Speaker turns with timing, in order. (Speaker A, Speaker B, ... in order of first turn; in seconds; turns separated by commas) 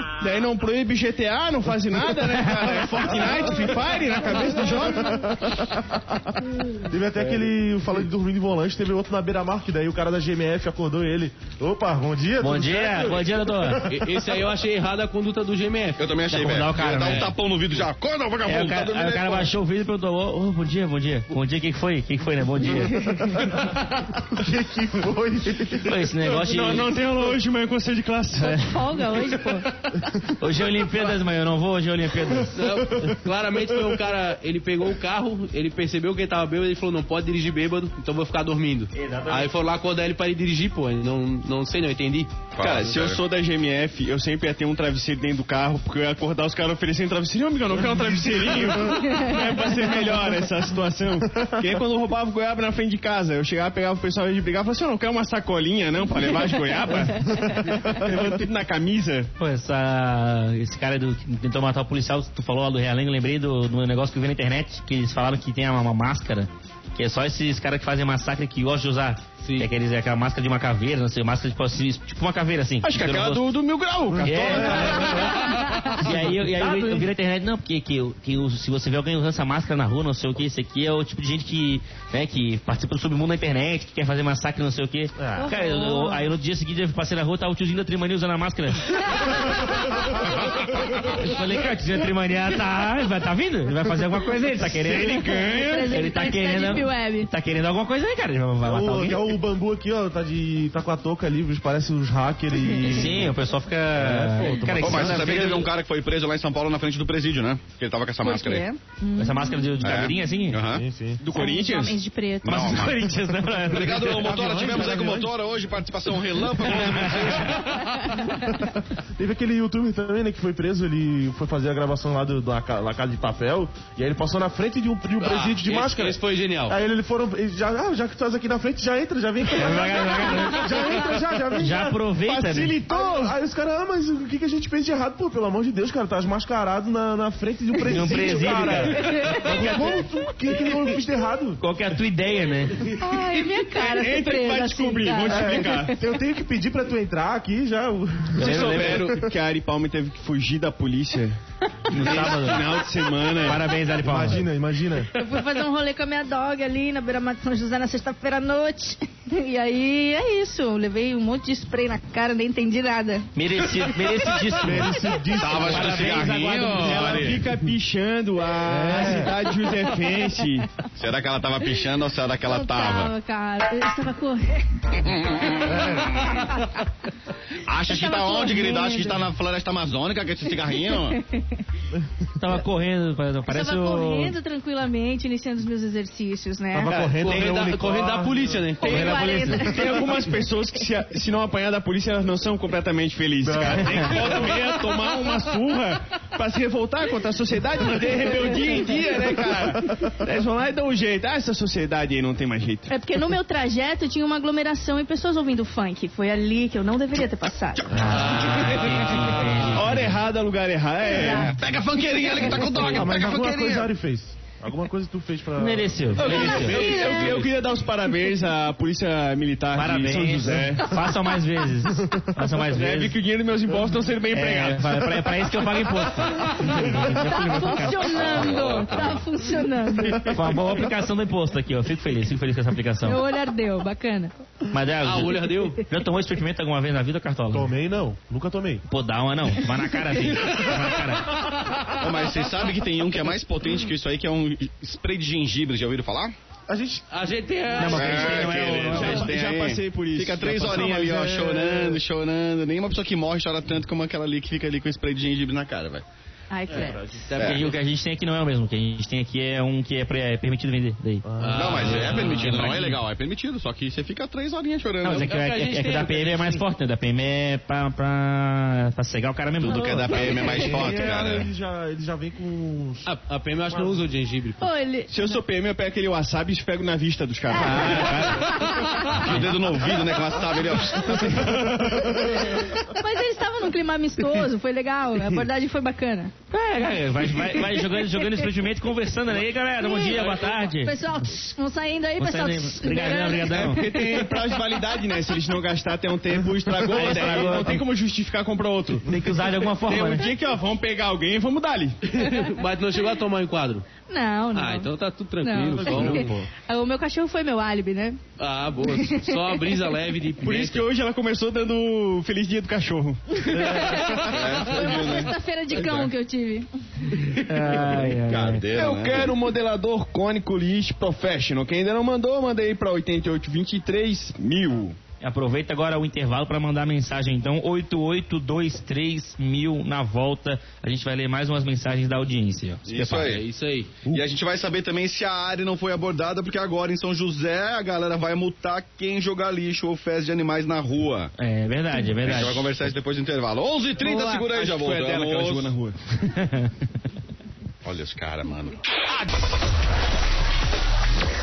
Speaker A: 0.2-5.3, Speaker B: 4.8-14.3, Speaker C: 12.4-13.9, Speaker D: 13.9-16.2, Speaker E: 16.0-19.5, Speaker C: 16.3-17.3, Speaker D: 16.9-17.4, Speaker C: 18.4-23.0, Speaker F: 22.9-23.4, Speaker B: 23.3-26.1, Speaker C: 25.8-26.9, Speaker A: 26.4-28.8, Speaker F: 28.4-29.7, Speaker C: 30.4-32.6, Speaker D: 32.5-42.4, Speaker B: 32.6-34.0, Speaker C: 38.9-39.5, Speaker E: 42.5-43.2, Speaker A: 42.6-59.3, Speaker B: 47.9-49.0, Speaker F: 49.1-49.7, Speaker B: 51.4-51.6, Speaker F: 56.7-57.5, Speaker C: 59.4-73.5, Speaker D: 69.4-69.7, Speaker A: 72.9-75.3, Speaker E: 72.9-74.7, Speaker B: 74.1-75.5, Speaker C: 74.2-99.3, Speaker F: 75.5-75.9, Speaker B: 76.0-77.1, Speaker B: 85.2-85.5, Speaker F: 85.4-86.3, Speaker F: 89.1-90.1, Speaker A: 94.8-95.9, Speaker F: 95.4-97.3, Speaker B: 98.6-103.3, Speaker F: 102.7-103.0, Speaker C: 102.8-105.7, Speaker B: 104.0-105.4, Speaker E: 104.8-108.7, Speaker F: 108.2-110.3, Speaker C: 109.2-110.6, Speaker E: 109.8-110.8, Speaker B: 110.7-111.2, Speaker A: 111.2-112.0, Speaker F: 111.3-112.8, Speaker E: 112.4-117.8, Speaker C: 112.4-114.5, Speaker B: 113.9-115.3, Speaker C: 116.7-117.5, Speaker F: 117.8-118.5, Speaker B: 118.5-132.0, Speaker D: 125.2-126.8, Speaker C: 129.5-132.8, Speaker A: 132.2-133.3, Speaker B: 132.9-141.6, Speaker C: 137.9-140.1, Speaker F: 137.9-140.1, Speaker C: 141.6-143.0, Speaker F: 142.9-145.8, Speaker A: 143.8-146.0, Speaker B: 145.3-149.3, Speaker C: 148.4-149.2, Speaker A: 148.4-151.4, Speaker C: 151.9-152.8, Speaker F: 151.9-152.9, Speaker A: 151.9-153.6, Speaker C: 153.4-154.5, Speaker B: 154.0-155.1, Speaker F: 155.1-163.3, Speaker C: 163.3-167.3, Speaker B: 164.6-166.3, Speaker E: 165.3-167.5, Speaker A: 166.7-170.7, Speaker B: 168.7-169.4, Speaker E: 171.0-173.1, Speaker F: 172.4-176.9, Speaker E: 175.0-176.5, Speaker E: 177.7-181.2, Speaker F: 177.8-179.3, Speaker F: 180.5-181.6, Speaker C: 182.4-184.4, Speaker F: 183.5-187.0, Speaker B: 186.7-188.7, Speaker D: 187.2-189.1, Speaker F: 188.8-190.3, Speaker C: 188.8-189.7, Speaker A: 189.6-202.9, Speaker B: 193.4-194.6, Speaker F: 202.9-208.0, Speaker C: 207.9-210.2, Speaker E: 207.9-208.7, Speaker D: 208.1-209.7, Speaker A: 209.7-211.6, Speaker E: 211.1-213.9, Speaker F: 211.1-212.7, Speaker B: 212.7-216.3, Speaker C: 215.6-216.8, Speaker A: 216.2-221.0, Speaker D: 216.2-217.5, Speaker F: 216.3-217.4, Speaker C: 219.8-223.2, Speaker A: 222.6-225.5, Speaker C: 224.3-228.6, Speaker F: 226.3-230.5, Speaker E: 228.1-229.4, Speaker C: 230.2-233.2, Speaker F: 233.0-234.3, Speaker C: 234.7-237.7, Speaker D: 235.0-235.8, Speaker B: 237.5-238.8, Speaker C: 238.9-241.5, Speaker E: 241.8-246.3, Speaker B: 246.7-247.1, Speaker D: 247.1-248.7, Speaker C: 247.8-249.3, Speaker E: 247.9-256.0, Speaker A: 248.7-252.0, Speaker B: 251.1-251.6, Speaker F: 256.5-257.1, Speaker B: 256.7-257.3, Speaker D: 257.3-257.8, Speaker E: 257.4-257.6, Speaker C: 257.4-261.2, Speaker B: 261.2-262.1, Speaker D: 261.4-262.8, Speaker E: 261.5-265.3, Speaker C: 261.8-263.0, Speaker C: 265.0-270.2, Speaker D: 265.1-266.7, Speaker E: 269.6-271.5, Speaker F: 269.7-271.2, Speaker B: 269.8-273.1, Speaker D: 273.1-274.7, Speaker B: 273.7-274.0, Speaker F: 274.6-275.4, Speaker A: 275.1-278.3, Speaker F: 277.5-279.3, Speaker C: 277.5-278.7, Speaker E: 279.2-281.5, Speaker A: 281.1-282.3, Speaker B: 281.5-282.3, Speaker F: 282.4-286.3, Speaker C: 286.5-291.0, Speaker F: 287.5-288.5, Speaker F: 289.8-294.6, Speaker C: 292.2-293.8, Speaker A: 293.5-302.0, Speaker C: 296.8-297.9, Speaker C: 299.1-300.3, Speaker D: 302.1-303.9, Speaker F: 304.1-308.2, Speaker D: 304.5-306.4, Speaker B: 305.7-306.5, Speaker D: 308.4-310.9, Speaker F: 308.9-309.8, Speaker A: 310.4-314.5, Speaker F: 313.4-317.1, Speaker E: 314.2-316.1, Speaker C: 317.4-318.7, Speaker E: 317.9-319.4, Speaker A: 318.7-325.0, Speaker C: 325.2-333.4, Speaker E: 332.9-333.5, Speaker D: 333.2-334.0, Speaker E: 334.1-341.3, Speaker C: 341.4-342.9, Speaker E: 342.1-345.7, Speaker A: 344.0-346.0, Speaker F: 344.0-344.5, Speaker C: 346.1-346.7, Speaker E: 347.8-348.9